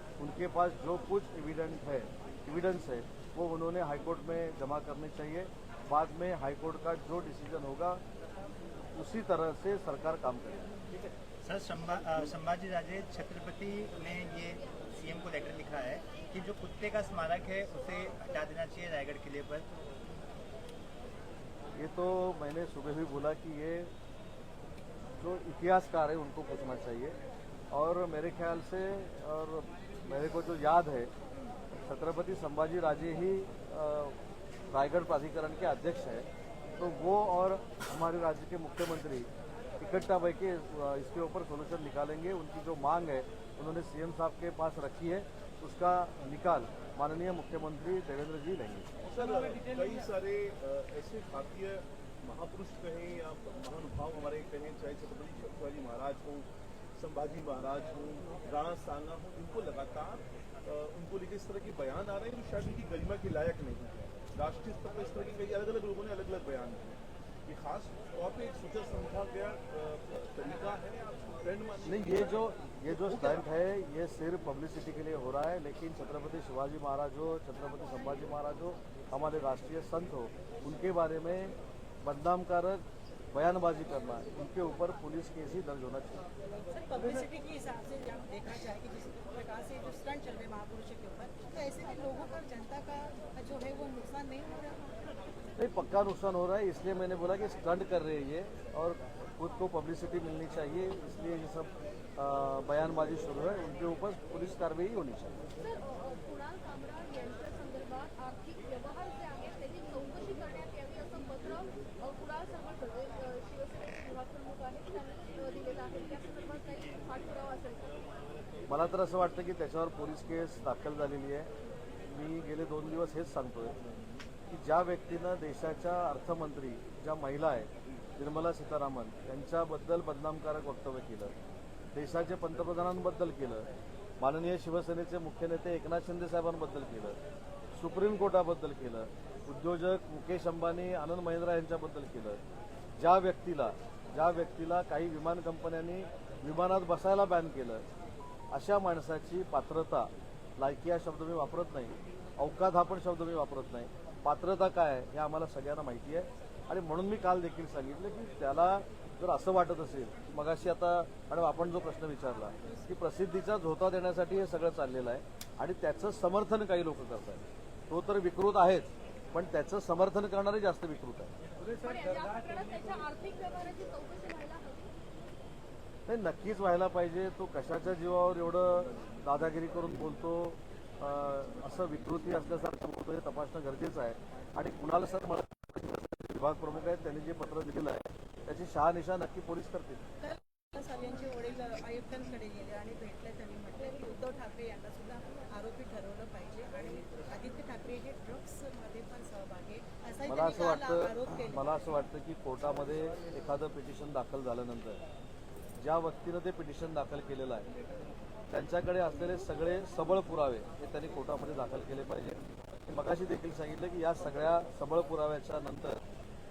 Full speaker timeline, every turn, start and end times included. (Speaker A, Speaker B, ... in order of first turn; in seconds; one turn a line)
Speaker A: 0.2-8.0
Speaker A: 8.9-10.7
Speaker B: 11.4-19.7
Speaker A: 21.8-23.9
Speaker A: 25.2-27.1
Speaker A: 27.7-31.1
Speaker A: 31.7-34.2
Speaker A: 34.7-48.9
Speaker C: 49.0-73.5
Speaker A: 71.8-86.2
Speaker D: 86.6-95.0
Speaker A: 95.6-105.4
Speaker E: 105.6-118.0
Speaker A: 118.7-121.5
Speaker A: 122.0-123.8
Speaker A: 124.5-131.3
Speaker A: 131.9-133.7
Speaker A: 134.2-137.2
Speaker A: 137.8-142.4
Speaker A: 143.0-147.8
Speaker A: 148.5-171.3
Speaker E: 171.7-174.9
Speaker D: 171.8-173.0
Speaker A: 176.1-190.0
Speaker D: 190.2-201.6
Speaker A: 200.2-205.0
Speaker A: 205.8-207.7
Speaker A: 208.5-216.0